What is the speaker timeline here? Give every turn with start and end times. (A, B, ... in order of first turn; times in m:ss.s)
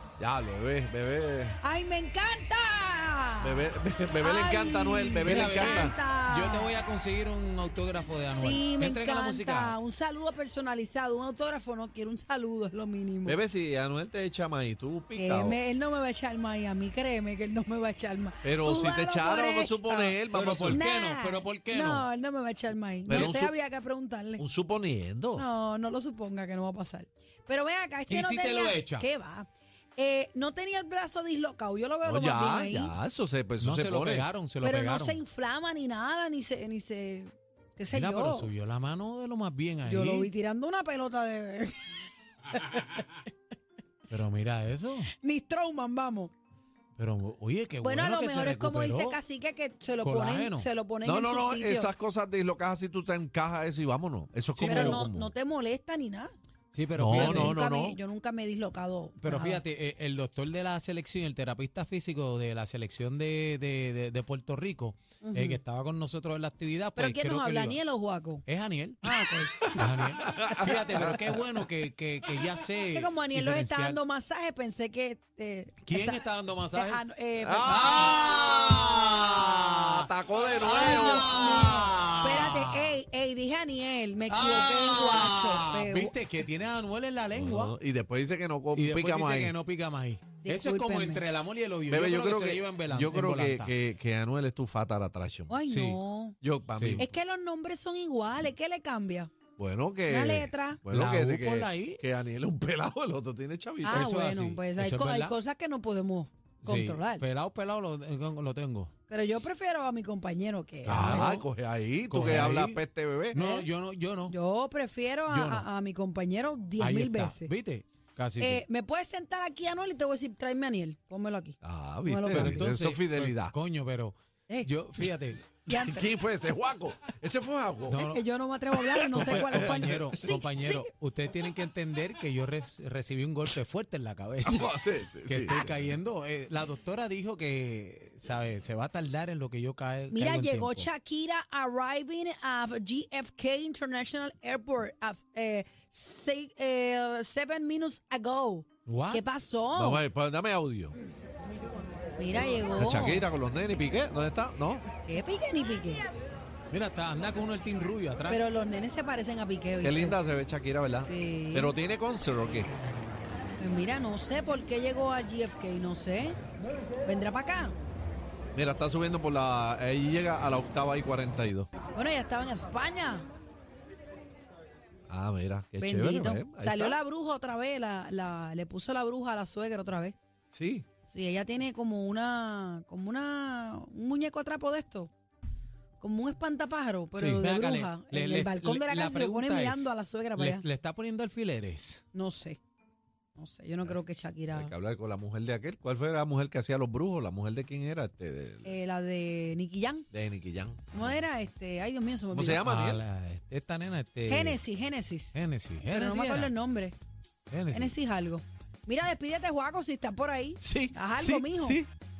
0:00.2-0:01.6 A
0:01.6-0:03.7 B
0:03.4-0:05.9 A
0:04.2-0:06.7 B
0:05.2-0:09.8 C
0:08.3-0:13.4 B
0:13.2-0:15.6 A
0:15.2-0:24.4 B
0:18.4-0:20.8 A
0:20.3-0:22.0 C
0:23.1-0:23.5 A
0:23.1-0:23.4 C
0:24.4-0:25.4 A
0:25.4-0:32.9 B
0:28.1-0:29.1 C
0:32.0-0:34.3 A
0:33.6-0:35.2 C
0:34.6-0:38.5 B
0:37.9-0:40.3 C
0:39.8-0:41.9 B
0:42.5-0:43.2 B
0:44.1-0:45.1 C
0:45.2-0:46.3 B
0:47.0-0:49.2 C
0:47.8-0:51.9 B
0:50.0-0:50.7 C
0:51.0-0:55.3 A
0:54.5-0:55.1 C
0:54.6-0:56.3 B
0:56.7-0:57.6 C
0:57.0-0:58.0 A
0:57.1-0:59.6 B
0:59.2-1:07.8 C
1:05.2-1:05.6 B
1:07.0-1:08.4 B
1:08.4-1:14.0 C
1:09.0-1:10.6 B
1:09.8-1:11.3 A
1:12.9-1:18.2 B
1:15.8-1:17.0 C
1:17.4-1:21.4 A
1:17.6-1:23.0 C
1:20.6-1:26.1 B
1:24.3-1:27.7 C
1:27.3-1:29.5 A
1:28.7-1:33.7 C
1:30.4-1:31.2 B
1:31.9-1:35.6 A
1:35.5-1:36.3 B
1:35.7-1:36.0 C
1:36.4-1:37.1 A
1:36.8-1:37.0 C
1:37.0-1:39.3 B
1:39.6-1:44.1 A
1:40.1-1:40.8 B
1:40.9-1:42.0 C
1:43.8-1:45.3 C
1:43.8-1:47.2 B
1:46.6-1:48.9 C
1:49.1-1:51.4 B
1:50.8-1:51.4 C
1:50.9-1:53.4 A
1:52.1-1:54.4 C
1:53.3-1:53.6 B
1:54.3-1:57.5 B
1:55.3-1:55.7 C
1:56.8-1:58.6 C
1:58.4-2:02.7 B
2:01.6-2:03.5 A
2:02.3-2:05.5 C
2:05.7-2:06.1 B
2:05.7-2:08.1 A
2:07.9-2:08.2 C
2:08.0-2:10.9 B
2:08.7-2:10.3 A
2:09.1-2:20.9 C
2:14.4-2:15.9 A
2:20.1-2:30.0 B
2:28.9-2:29.4 C
2:29.7-2:30.9 A
2:32.2-2:33.3 B
2:32.3-2:34.8 A
2:35.0-2:36.0 B
2:36.7-2:38.4 C
2:38.3-2:40.2 B
2:39.8-2:42.7 A
2:41.0-2:41.7 B
2:43.6-2:46.4 B
2:47.0-2:47.7 B
2:48.5-2:51.7 A
2:51.9-2:53.3 B
2:55.1-2:57.0 A
2:55.8-3:00.2 B
3:00.5-3:00.8 A
3:01.1-3:05.1 B
3:06.0-3:10.6 B
3:07.1-3:07.4 A
3:07.4-3:12.0 C
3:12.1-3:12.6 B
3:13.4-3:14.7 B
3:14.5-3:18.7 A
3:18.6-3:20.1 B
3:20.1-3:21.2 A
3:20.9-3:22.6 B
3:22.3-3:23.0 A
3:22.6-3:24.6 C
3:24.3-3:26.9 B
3:25.3-3:26.5 C
3:27.5-3:27.9 C
3:27.7-3:31.8 B
3:30.6-3:31.9 A